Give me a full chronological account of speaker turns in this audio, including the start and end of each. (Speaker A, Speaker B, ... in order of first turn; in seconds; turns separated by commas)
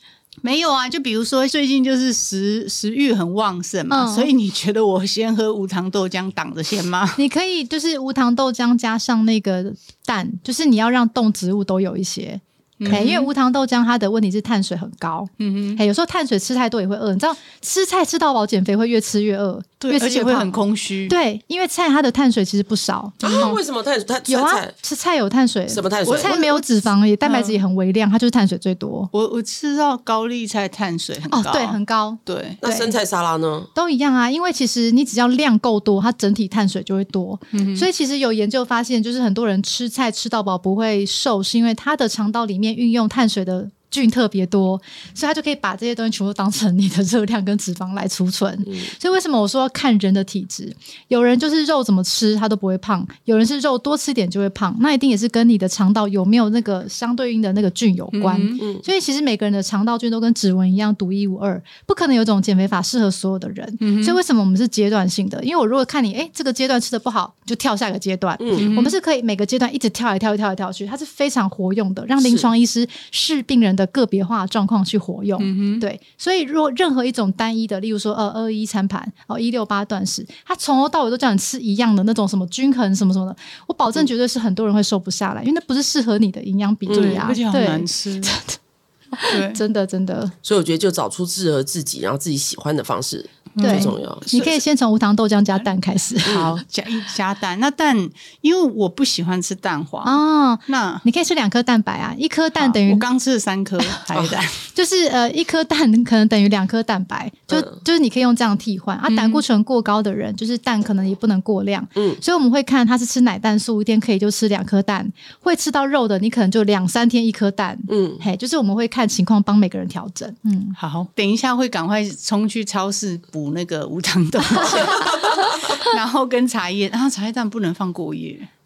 Speaker A: 0.4-7.2, Speaker B: 3.9-4.3, Speaker B: 7.2-23.6, Speaker A: 12.8-13.3, Speaker A: 15.4-15.8, Speaker A: 19.8-21.2, Speaker C: 23.2-24.7, Speaker A: 23.2-23.6, Speaker B: 24.3-29.1, Speaker C: 25.7-26.3, Speaker A: 26.1-26.7, Speaker A: 27.2-27.6, Speaker A: 29.1-32.6, Speaker B: 31.3-33.0, Speaker C: 32.6-33.7, Speaker B: 33.8-88.6, Speaker A: 37.5-37.9, Speaker A: 58.1-58.6, Speaker C: 58.6-58.9, Speaker A: 63.8-64.2, Speaker C: 68.4-68.7, Speaker A: 68.5-69.0, Speaker C: 72.2-72.5, Speaker A: 75.4-75.8, Speaker C: 86.9-87.3, Speaker A: 86.9-88.3, Speaker B: 89.1-90.3, Speaker A: 89.3-89.6, Speaker C: 90.4-94.5, Speaker A: 93.5-94.5, Speaker B: 93.6-96.6, Speaker A: 96.3-101.0, Speaker C: 96.3-96.5, Speaker B: 100.0-103.0, Speaker A: 102.6-104.7, Speaker C: 104.1-104.4, Speaker B: 104.7-120.8, Speaker A: 109.1-109.4, Speaker C: 117.9-118.2, Speaker A: 120.8-128.5, Speaker B: 124.6-125.9, Speaker C: 124.7-125.7